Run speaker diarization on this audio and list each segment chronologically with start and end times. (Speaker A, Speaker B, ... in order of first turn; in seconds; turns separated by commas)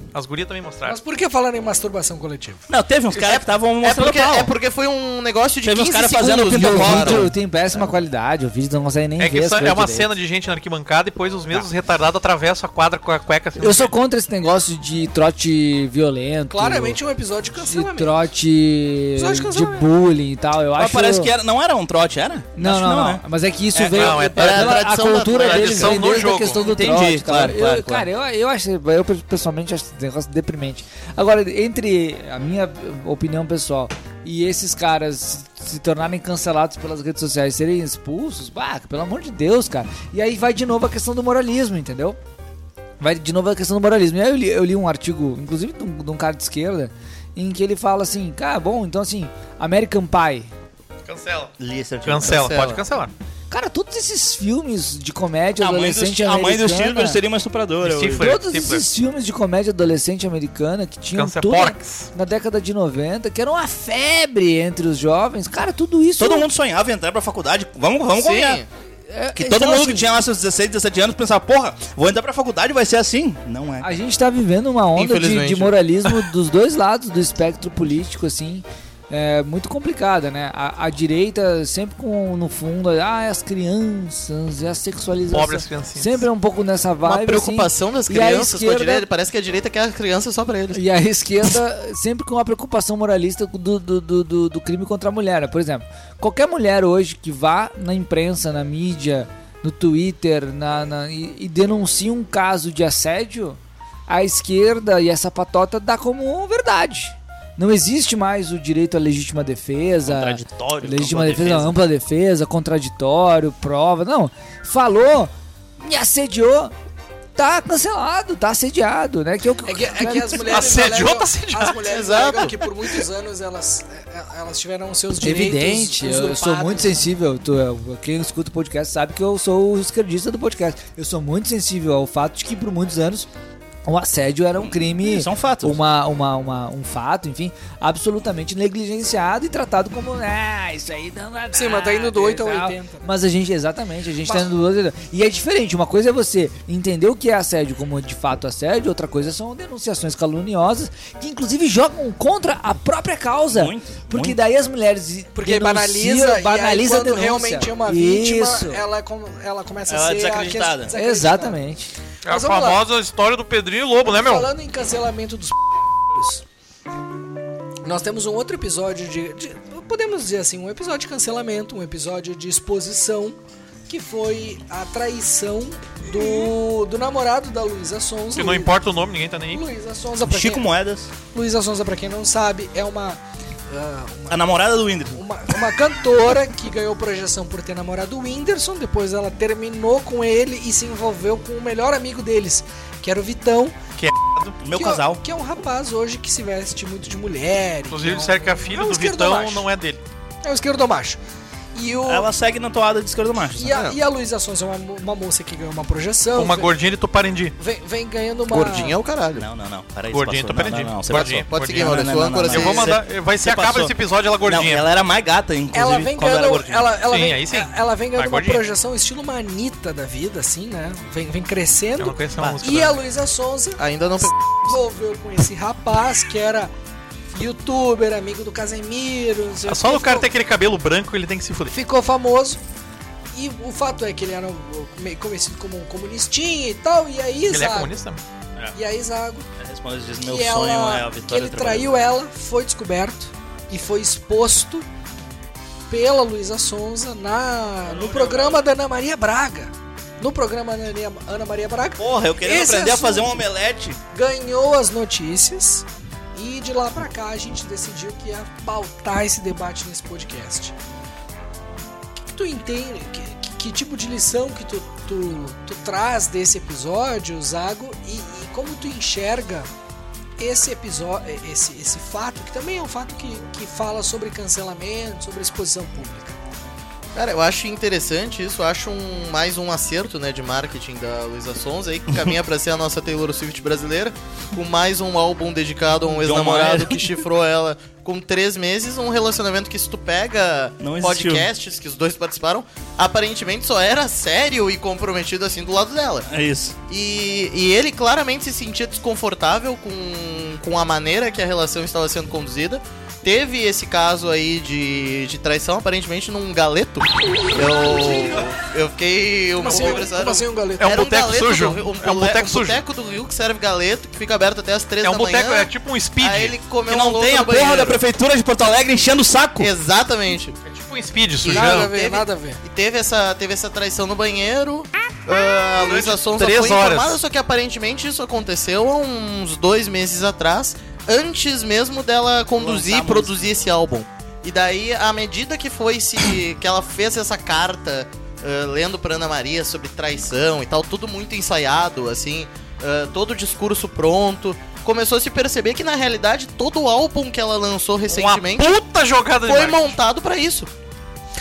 Speaker A: 0.1-1.0, Speaker B: 0.8-2.6, Speaker C: 2.7-4.5, Speaker D: 3.1-7.3, Speaker C: 5.6-7.3, Speaker E: 6.5-10.1, Speaker A: 9.2-13.9, Speaker E: 13.6-17.0, Speaker B: 16.5-18.2, Speaker E: 17.6-21.3, Speaker B: 19.1-19.9, Speaker C: 20.8-23.2, Speaker E: 22.5-42.2, Speaker C: 23.7-24.2, Speaker A: 23.9-24.8, Speaker D: 24.1-26.5, Speaker A: 25.4-26.7, Speaker C: 26.6-28.1, Speaker E: 43.0-50.5, Speaker A: 51.0-51.5, Speaker C: 51.6-52.8, Speaker A: 52.0-53.1, Speaker D: 52.2-52.7, Speaker E: 53.5-57.2, Speaker C: 55.6-58.3, Speaker A: 57.8-58.8, Speaker E: 58.1-66.5, Speaker A: 61.1-62.1, Speaker C: 66.2-68.6, Speaker D: 68.2-68.7, Speaker E: 69.1-70.1, Speaker C: 69.3-73.9, Speaker E: 73.8-89.0, Speaker D: 75.0-75.8, Speaker A: 85.3-86.2, Speaker D: 87.0-90.8, Speaker E: 90.7-116.7, Speaker C: 110.0-111.8, Speaker E: 117.3-120.7, Speaker B: 119.6-127.1, Speaker A: 120.5-121.8, Speaker D: 121.8-122.6, Speaker E: 125.2-133.3, Speaker E: 133.8-158.8, Speaker C: 134.6-135.8, Speaker B: 141.5-143.1, Speaker C: 153.5-154.4, Speaker B: 155.3-161.6, Speaker C: 159.9-160.9, Speaker E: 160.9-161.9, Speaker A: 162.2-164.5, Speaker B: 162.3-162.8, Speaker B: 164.1-166.4, Speaker B: 167.8-178.7, Speaker A: 178.3-179.6, Speaker B: 179.5-180.7, Speaker C: 180.2-181.1, Speaker B: 181.2-184.4, Speaker C: 184.3-185.2, Speaker B: 185.1-193.8, Speaker A: 194.0-194.6, Speaker C: 194.6-195.2, Speaker B: 194.7-199.7, Speaker A: 197.9-200.0, Speaker B: 200.4-201.2, Speaker B: 201.7-202.3, Speaker C: 202.0-203.8, Speaker B: 203.6-206.7, Speaker D: 203.7-204.0, Speaker A: 206.3-207.5, Speaker B: 207.6-209.0, Speaker D: 208.5-209.4, Speaker C: 209.3-216.9, Speaker A: 210.1-214.8, Speaker D: 211.1-213.0, Speaker B: 215.7-226.7, Speaker A: 217.1-218.6, Speaker A: 222.0-223.0, Speaker D: 223.8-224.8, Speaker B: 227.3-230.3, Speaker A: 229.7-231.7, Speaker B: 231.7-232.6, Speaker B: 233.3-238.0, Speaker A: 237.5-238.2, Speaker B: 238.7-239.5, Speaker C: 239.6-242.0, Speaker B: 240.2-244.8, Speaker B: 245.9-253.4, Speaker A: 247.9-248.5, Speaker C: 252.0-254.0, Speaker B: 254.1-260.7, Speaker B: 262.2-269.7, Speaker B: 270.4-276.4, Speaker D: 277.1-296.3, Speaker C: 286.1-287.2, Speaker C: 290.8-291.5, Speaker C: 296.3-296.8, Speaker D: 296.9-318.0, Speaker B: 309.6-310.9, Speaker A: 309.7-309.9, Speaker A: 310.8-312.8, Speaker A: 315.0-316.6, Speaker C: 316.9-319.7, Speaker D: 319.6-320.6, Speaker A: 320.6-321.9, Speaker D: 321.4-348.7, Speaker B: 321.5-322.6, Speaker A: 325.7-327.2, Speaker C: 332.5-333.6, Speaker A: 348.1-349.9, Speaker D: 349.4-350.7